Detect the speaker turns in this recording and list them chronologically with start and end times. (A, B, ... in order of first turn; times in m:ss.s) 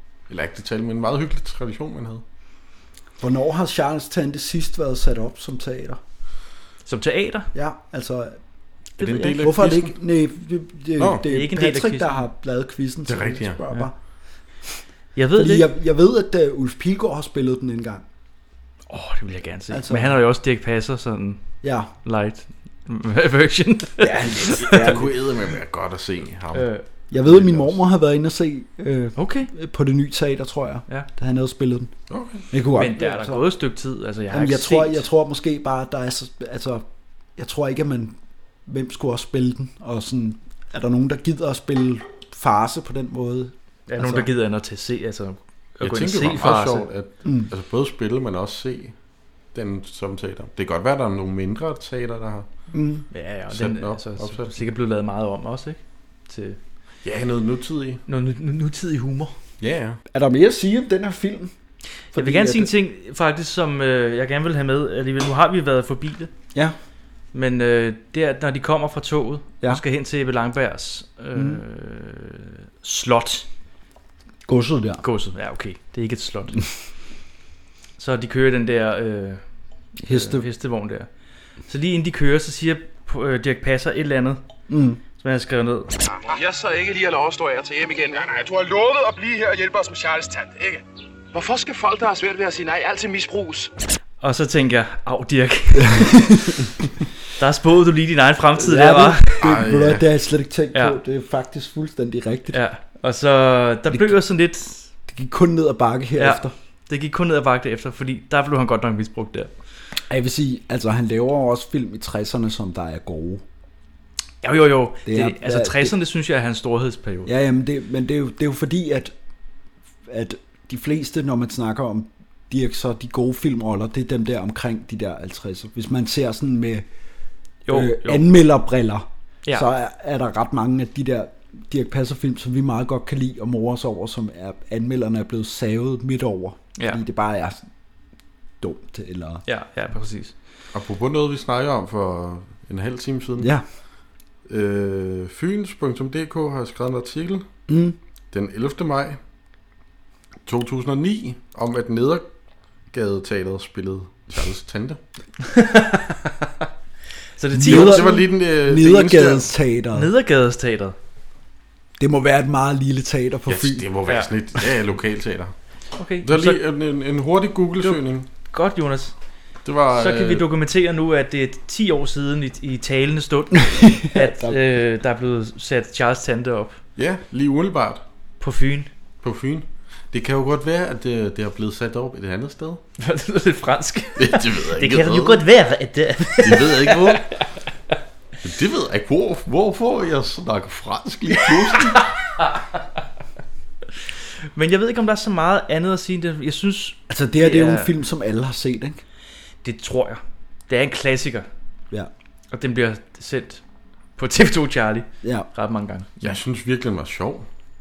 0:00.3-0:02.2 A
0:03.2-0:06.0 B
0:06.9-0:07.5 C
0:07.5-0:08.4 B
0:09.0-0:09.5 C
0:09.0-0:10.0 A
0:09.4-0:13.9 B
0:11.0-0:11.2 A
0:11.3-0:12.2 C
0:13.1-0:13.6 A
0:15.2-0:15.7 C
0:15.4-0:18.0 B
0:18.9-0:21.4 C
0:19.7-0:20.2 B
0:21.6-0:21.9 B
0:22.0-0:25.0 C
0:24.0-0:25.1 B
0:24.5-0:27.8 A
0:26.5-0:26.8 C
0:27.1-0:31.9 B
0:29.2-0:29.5 C
0:32.1-0:32.5 A
0:32.5-0:33.4 B
0:32.8-0:35.0 C
0:34.3-0:36.8 B
0:37.4-0:44.3 B
0:43.9-0:46.9 C
0:45.8-0:48.9 A
0:47.2-0:47.5 B
0:49.5-0:52.5 A
0:52.7-0:53.1 B
0:53.1-0:56.6 C
0:53.5-0:54.6 A
0:57.0-0:58.0 A
0:58.1-0:59.3 C
0:59.6-1:00.0 A
1:00.1-1:01.5 B
1:02.1-1:02.7 B
1:02.2-1:06.3 C
1:07.3-1:13.5 C
1:11.3-1:11.6 B
1:14.5-1:15.0 B
1:15.0-1:16.6 C
1:18.0-1:19.4 C
1:20.0-1:20.5 B
1:20.1-1:21.1 C
1:21.7-1:24.4 C
1:24.7-1:25.0 B
1:25.2-1:25.9 C
1:26.3-1:28.3 D
1:29.2-1:30.8 D
1:31.3-1:33.7 D
1:34.2-1:36.3 C
1:35.8-1:36.6 B
1:37.4-1:39.4 C
1:38.6-1:42.6 B
1:39.4-1:40.0 A
1:40.7-1:41.0 C
1:42.5-1:44.9 C
1:43.9-1:44.2 B
1:45.1-1:46.5 B
1:46.2-1:49.5 C
1:50.1-1:53.4 B
1:54.4-1:57.3 C
1:55.1-1:56.0 B
1:57.2-1:59.1 B
2:00.1-2:06.9 B
2:07.7-2:08.3 C
2:07.7-2:17.6 B
2:18.6-2:19.4 B
2:19.5-2:20.3 C
2:20.7-2:23.5 A
2:24.5-2:27.5 A
2:27.7-2:28.0 B
2:28.3-2:29.2 A
2:30.5-2:32.2 A
2:32.9-2:35.0 A
2:35.5-2:36.1 C
2:37.4-2:38.2 C
2:37.5-2:40.1 B
2:37.6-2:39.5 A
2:39.9-2:41.0 C
2:42.0-2:43.9 B
2:43.5-2:45.5 A
2:46.0-2:46.6 C
2:46.2-2:48.3 A
2:47.8-2:49.1 C
2:49.6-2:50.5 A
2:49.9-2:56.8 C
2:53.7-2:54.6 B
2:57.0-2:58.0 A
2:58.4-2:58.9 C
2:59.2-3:02.8 A
3:03.0-3:07.4 C
3:04.2-3:05.4 A
3:06.4-3:07.3 A
3:08.4-3:12.1 A
3:14.5-3:17.9 C
3:17.1-3:19.0 B
3:19.6-3:21.5 C
3:22.5-3:23.6 C
3:24.2-3:26.3 C
3:25.2-3:25.5 B
3:26.2-3:27.5 A